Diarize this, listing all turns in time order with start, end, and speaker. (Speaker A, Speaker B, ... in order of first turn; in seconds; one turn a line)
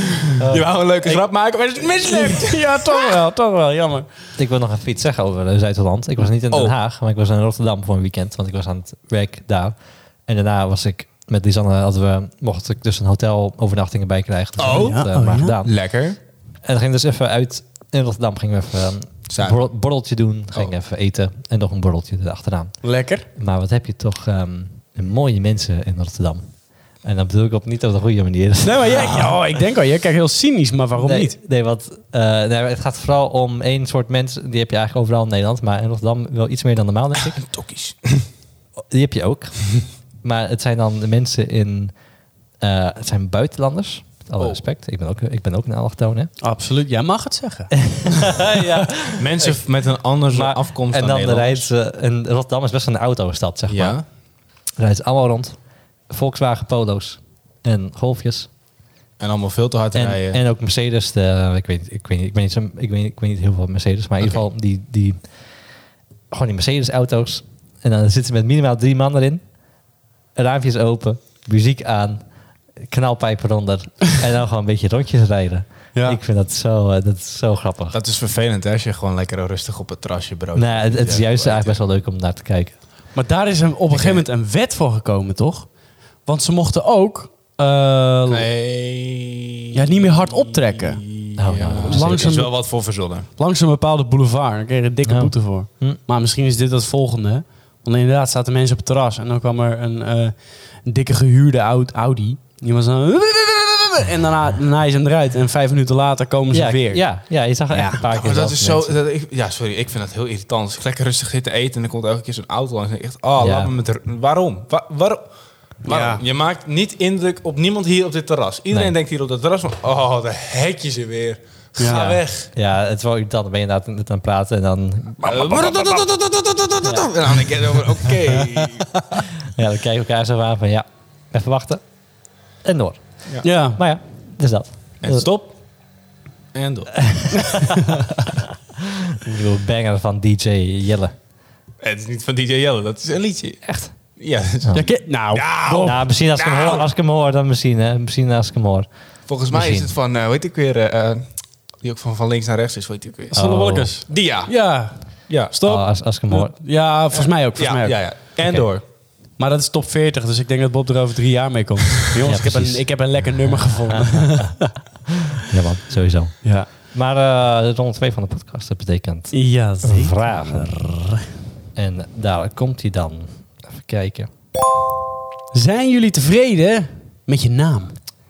Speaker A: 0.4-2.7
Speaker B: 0.4-0.7
Speaker C: 2.0-4.1
Speaker B: 4.4-15.7
Speaker A: 14.6-15.0
Speaker C: 14.7-15.6
Speaker A: 15.6-16.2
Speaker B: 16.6-29.4
Speaker A: 19.3-19.6
Speaker C: 22.8-23.2
Speaker C: 28.6-31.4
Speaker B: 31.0-37.4
Speaker A: 37.4-38.2
Speaker B: 38.9-41.9
Speaker B: 42.6-46.3
Speaker C: 46.4-48.5
Speaker B: 47.9-49.6
Speaker A: 49.1-51.7
Speaker B: 50.3-54.0
Speaker A: 53.7-54.0
Speaker B: 54.8-58.5
Speaker A: 59.2-60.4
Speaker B: 59.9-65.3
Speaker B: 66.3-69.4
Speaker B: 70.3-72.2
Speaker B: 72.8-78.0
Speaker C: 75.9-76.2
Speaker A: 77.9-81.8
Speaker B: 80.5-82.8
Speaker C: 83.1-85.7
Speaker A: 83.9-84.2
Speaker C: 86.2-88.5
Speaker A: 88.3-93.3
Speaker C: 89.7-91.0
Speaker B: 91.4-92.3
Speaker C: 91.8-92.8
Speaker C: 93.4-107.0
Speaker B: 95.0-96.0
Speaker B: 106.5-109.0
Speaker C: 107.7-108.0
Speaker A: 108.0-115.2
Speaker B: 113.4-113.7
Speaker A: 115.8-122.5
Speaker C: 115.8-116.2
Speaker C: 121.8-122.2
Speaker B: 122.0-125.6
Speaker A: 125.2-129.0
Speaker B: 126.8-127.1
Speaker B: 129.5-131.8
Speaker B: 132.6-135.3
Speaker C: 133.4-133.8
Speaker A: 135.0-135.5
Speaker A: 136.5-137.6
Speaker B: 139.2-141.1
Speaker A: 141.8-146.9
Speaker B: 143.7-143.9
Speaker C: 144.7-146.0
Speaker B: 145.8-148.9
Speaker A: 149.3-151.2
Speaker B: 149.5-149.9
Speaker A: 151.8-153.4
Speaker B: 153.3-153.9
Speaker C: 153.3-158.0
Speaker A: 154.1-155.5
Speaker B: 155.6-156.5
Speaker A: 157.1-158.8
Speaker C: 159.3-164.7
Speaker B: 162.2-164.6
Speaker B: 165.4-170.9
Speaker C: 166.4-166.7
Speaker C: 169.3-171.2
Speaker B: 171.7-174.3
Speaker C: 175.5-177.9